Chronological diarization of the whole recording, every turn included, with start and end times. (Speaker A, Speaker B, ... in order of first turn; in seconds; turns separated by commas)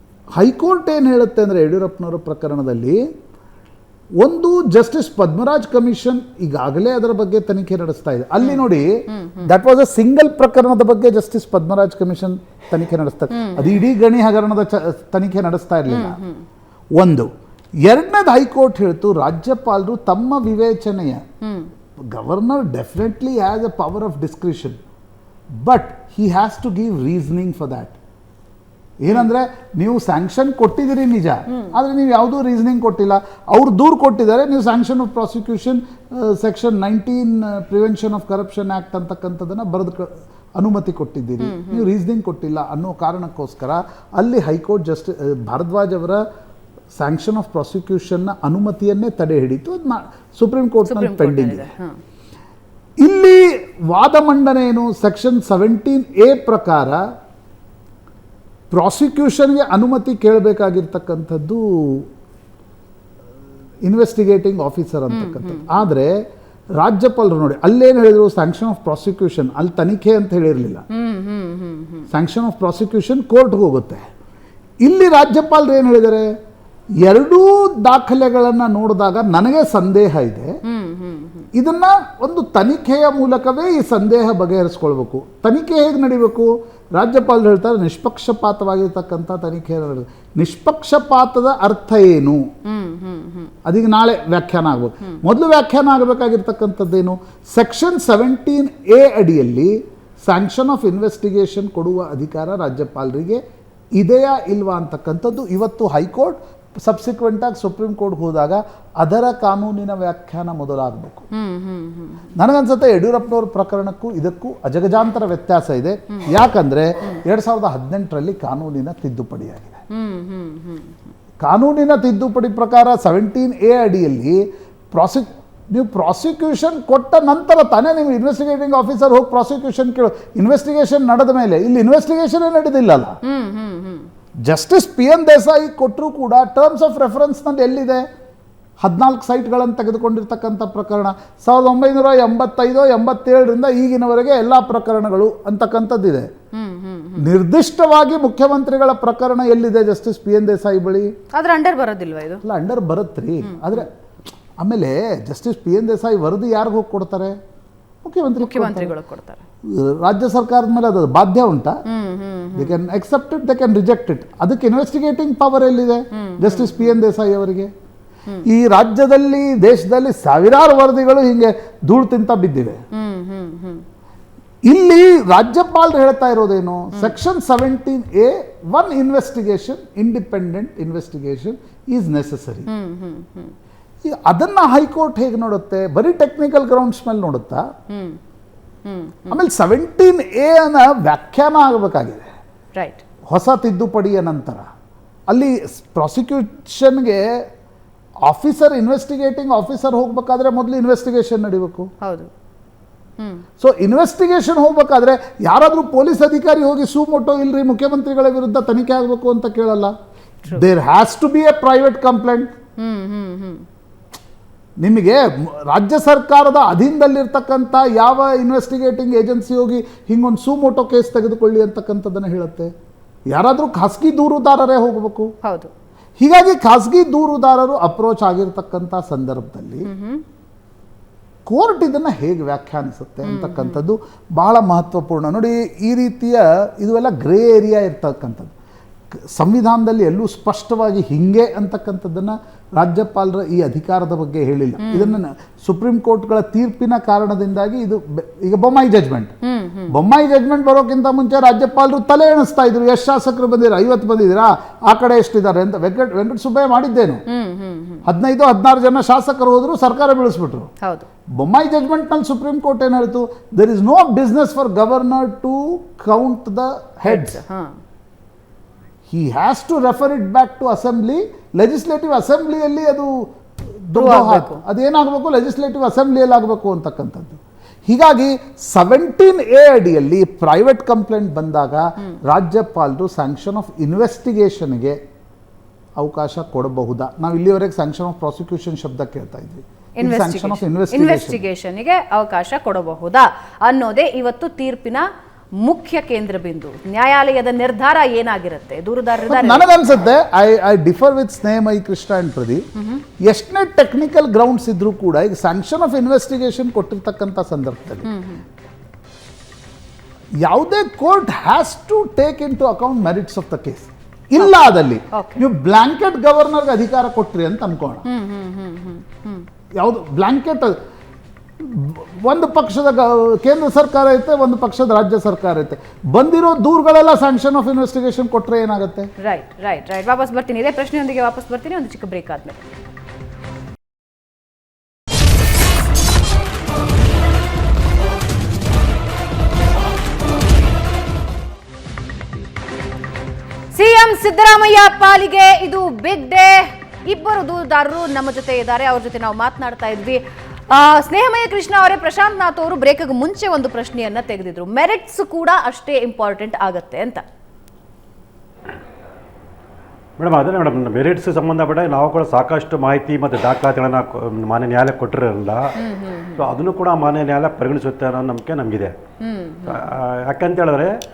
Speaker A: 0.4-3.0, Speaker A: 4.2-16.2, Speaker B: 8.4-9.5, Speaker B: 13.3-13.7, Speaker B: 15.9-16.4, Speaker A: 16.9-17.3, Speaker A: 17.9-21.2, Speaker B: 21.4-21.7, Speaker A: 22.1-24.8, Speaker A: 25.6-28.0, Speaker A: 29.0-46.2, Speaker B: 41.4-41.9, Speaker A: 47.0-51.7, Speaker B: 50.9-52.0, Speaker A: 53.0-57.0, Speaker A: 58.7-62.1, Speaker A: 63.9-66.2, Speaker B: 65.1-65.8, Speaker A: 66.8-70.8, Speaker B: 70.9-72.0, Speaker A: 72.1-74.0, Speaker A: 74.8-76.3, Speaker A: 77.0-80.5, Speaker B: 80.7-81.5, Speaker A: 81.5-92.4, Speaker B: 92.7-93.5, Speaker A: 93.7-99.7, Speaker A: 100.2-103.4, Speaker A: 104.0-111.2, Speaker B: 111.3-112.3, Speaker A: 112.3-119.8, Speaker B: 119.9-121.0, Speaker A: 121.4-124.4, Speaker A: 124.9-133.1, Speaker B: 133.2-134.1, Speaker A: 134.5-138.0, Speaker A: 138.8-146.3, Speaker B: 146.5-147.2, Speaker A: 147.2-151.1, Speaker B: 151.3-152.4, Speaker A: 152.4-153.9, Speaker B: 153.4-153.8, Speaker A: 154.6-157.4, Speaker A: 158.0-158.9, Speaker B: 158.4-159.4, Speaker A: 159.7-161.8, Speaker B: 161.9-162.8, Speaker A: 162.5-167.7, Speaker B: 166.1-166.9, Speaker A: 168.5-172.8, Speaker B: 172.9-173.8, Speaker A: 174.7-182.7, Speaker B: 182.7-183.5, Speaker A: 184.0-187.7, Speaker B: 187.9-188.2, Speaker B: 188.8-189.4, Speaker A: 189.3-192.3, Speaker B: 192.7-193.0, Speaker A: 193.3-194.7, Speaker A: 195.3-197.2, Speaker A: 198.3-201.9, Speaker B: 202.0-202.3, Speaker B: 203.2-203.4, Speaker A: 203.6-209.9, Speaker A: 210.5-212.5, Speaker B: 212.8-213.7, Speaker A: 214.8-222.7, Speaker A: 223.3-225.3, Speaker B: 225.4-225.7, Speaker A: 226.2-229.8, Speaker B: 229.8-230.2, Speaker A: 231.5-238.5, Speaker B: 233.2-233.8, Speaker A: 239.3-249.3, Speaker B: 244.8-245.1, Speaker B: 249.4-249.9, Speaker A: 249.9-257.2, Speaker B: 257.3-258.0, Speaker A: 258.1-260.7, Speaker A: 261.4-267.4, Speaker B: 267.1-267.7, Speaker A: 269.1-273.1, Speaker A: 273.8-285.0, Speaker B: 273.9-274.6, Speaker A: 286.0-291.4, Speaker B: 290.0-295.0, Speaker B: 295.6-299.6, Speaker A: 299.3-302.6, Speaker B: 302.8-303.0, Speaker A: 303.2-308.1, Speaker B: 308.0-308.4, Speaker A: 310.4-318.0, Speaker B: 315.1-315.4, Speaker B: 318.1-319.4, Speaker A: 319.8-320.8, Speaker A: 321.6-329.1, Speaker B: 329.2-332.6, Speaker B: 343.7-357.2, Speaker C: 360.2-365.6, Speaker B: 365.8-366.4, Speaker C: 366.4-368.9, Speaker B: 369.2-369.8, Speaker C: 369.7-370.9